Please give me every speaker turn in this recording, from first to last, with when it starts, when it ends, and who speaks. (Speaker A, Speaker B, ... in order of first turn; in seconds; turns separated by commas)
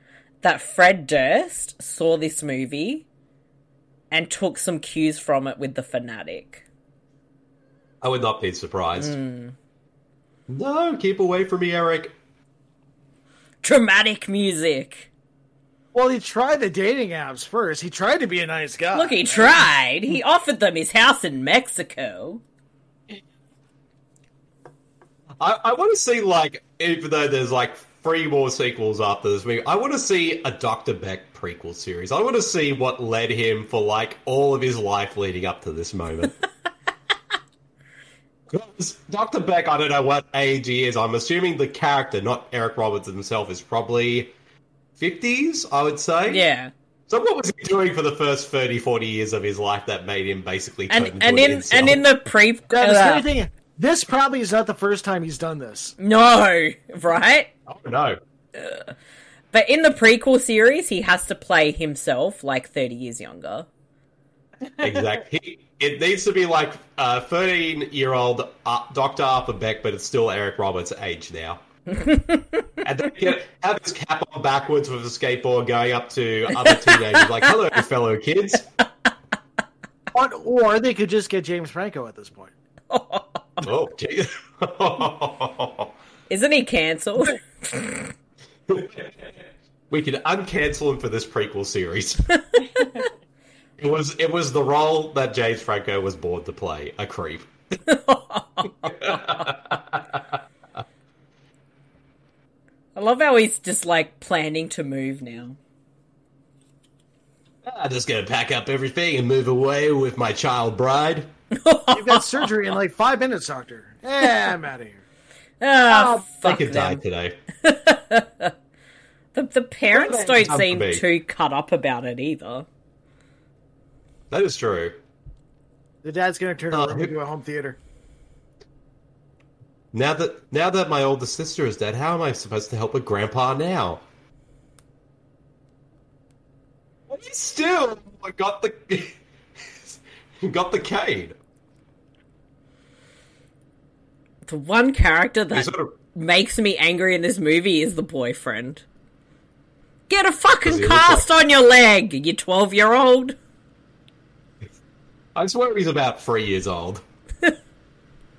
Speaker A: 0.4-3.0, Speaker A: 4.1-6.7, Speaker B: 8.0-9.2, Speaker A: 9.0-9.6, Speaker B: 10.5-12.1, Speaker A: 13.6-15.1, Speaker C: 15.9-19.7, Speaker A: 18.9-22.4, Speaker B: 25.4-36.4, Speaker B: 38.5-44.3, Speaker B: 45.0-46.4, Speaker A: 46.3-46.7, Speaker B: 47.1-52.1, Speaker A: 50.9-53.3, Speaker C: 52.7-56.0, Speaker A: 56.0-57.5, Speaker B: 57.7-58.2, Speaker A: 58.6-58.9, Speaker A: 59.5-63.7, Speaker B: 64.8-71.6, Speaker A: 71.9-72.7, Speaker B: 72.8-78.7, Speaker A: 76.5-77.5, Speaker C: 80.1-82.5, Speaker A: 82.9-83.7, Speaker B: 83.6-85.9, Speaker A: 86.3-88.1, Speaker B: 88.7-89.3, Speaker B: 89.9-92.4, Speaker B: 93.8-97.5, Speaker A: 97.9-99.5, Speaker B: 98.8-100.2, Speaker A: 103.0-105.6, Speaker B: 107.7-111.3, Speaker A: 111.5-112.5, Speaker C: 111.9-115.0, Speaker A: 115.6-117.0, Speaker B: 115.9-117.4, Speaker A: 117.6-118.5, Speaker A: 119.3-122.7, Speaker B: 119.9-121.1, Speaker B: 124.3-125.0, Speaker C: 126.0-127.8, Speaker B: 126.7-127.1, Speaker B: 129.9-134.0, Speaker B: 137.1-139.2, Speaker B: 139.8-141.4, Speaker A: 144.5-148.8, Speaker B: 145.5-146.0, Speaker A: 150.1-153.4, Speaker B: 150.7-151.3, Speaker B: 155.3-157.0